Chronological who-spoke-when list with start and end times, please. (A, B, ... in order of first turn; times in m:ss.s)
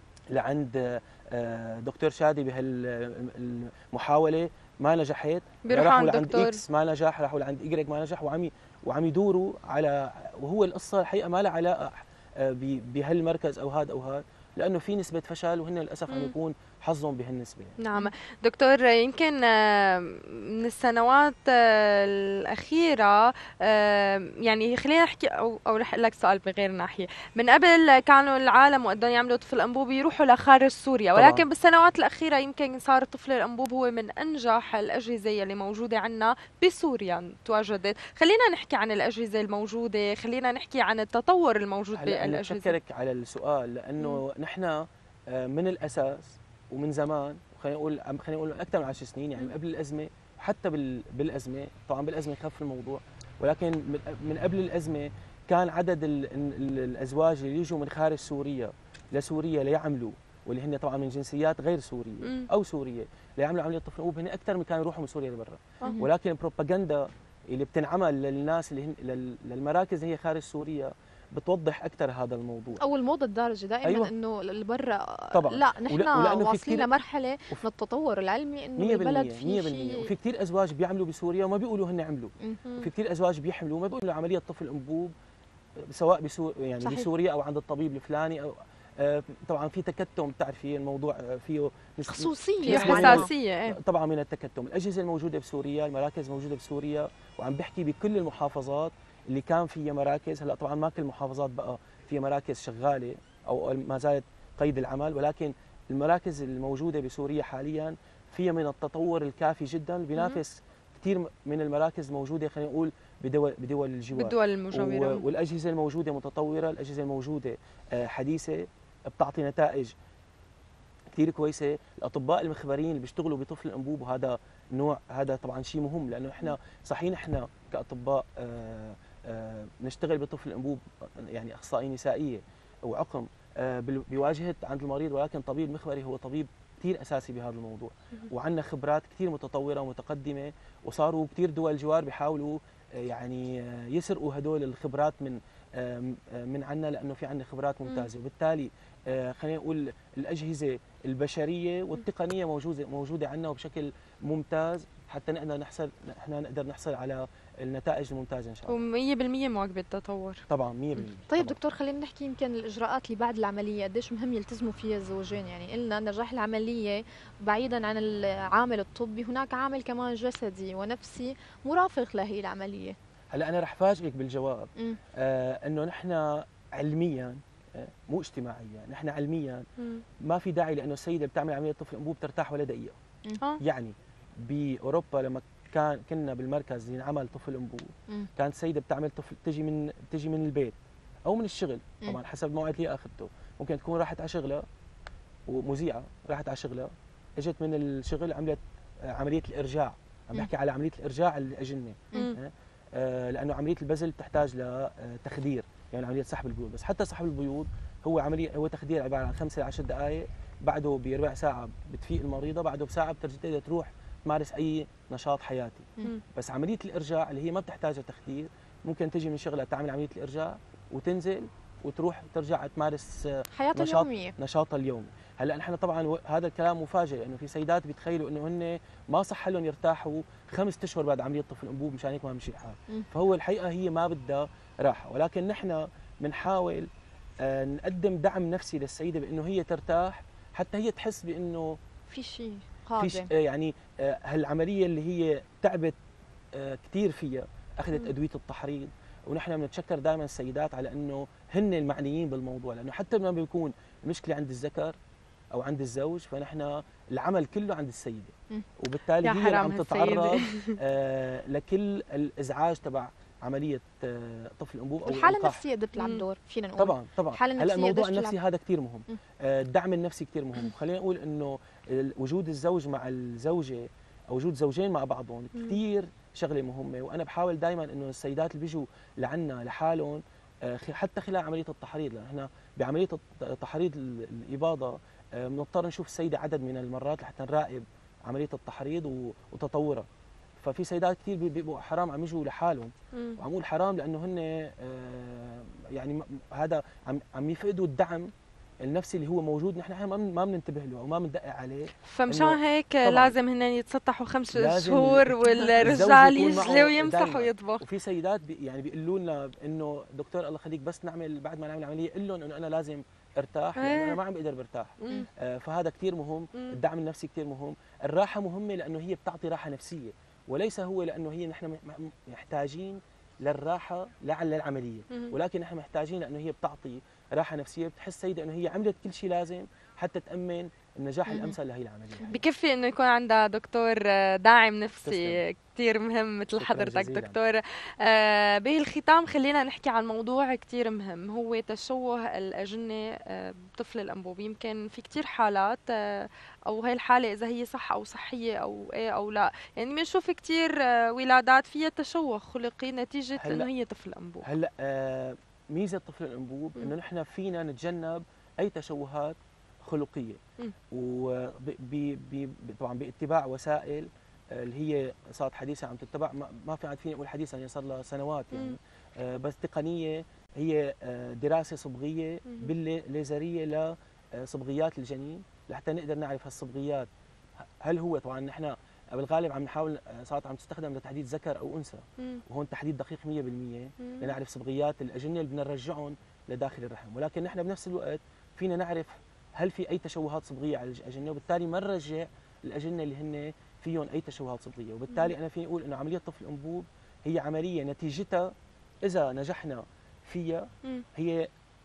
0:00.3-0:17.8 A
0:05.6-0:06.6 B
0:17.8-0:42.7 B
0:31.1-0:31.4 A
0:41.9-1:12.8 A
1:02.2-1:02.5 B
1:05.8-1:06.1 C
1:12.8-1:20.1 C
1:13.8-1:14.1 A
1:15.3-1:16.9 A
1:18.8-1:25.1 A
1:25.9-1:59.9 A
1:26.8-1:27.1 C
1:32.1-1:33.3 C
1:32.6-1:33.8 B
1:50.2-1:50.4 B
1:54.1-1:55.3 B
2:01.1-2:38.8 A
2:38.7-2:40.4 B
2:40.5-2:41.6 A
2:41.3-2:53.0 C
2:53.3-2:59.6 A
3:00.2-3:03.0 A
3:03.6-3:14.6 A
3:15.5-3:18.6 A
3:19.1-3:56.9 A
3:43.5-3:44.3 C
3:57.4-4:01.8 A
4:02.1-4:03.3 C
4:03.0-4:06.0 A
4:06.5-4:15.0 A
4:15.5-4:25.6 A
4:19.2-4:20.8 B
4:25.0-4:28.4 C
4:26.0-4:26.2 B
4:26.8-4:50.1 A
4:50.6-4:58.3 A
4:53.1-4:53.4 B
4:58.8-5:03.4 A
5:02.0-5:07.8 B
5:04.5-5:32.4 A
5:05.4-5:05.8 C
5:13.8-5:14.2 B
5:31.3-5:31.6 C
5:32.2-5:54.5 B
5:35.0-5:35.4 A
5:36.6-5:37.4 A
5:53.4-5:53.7 A
5:54.4-6:00.4 A
6:00.9-6:17.1 A
6:17.8-6:38.5 A
6:24.0-6:24.3 B
6:39.0-6:41.5 A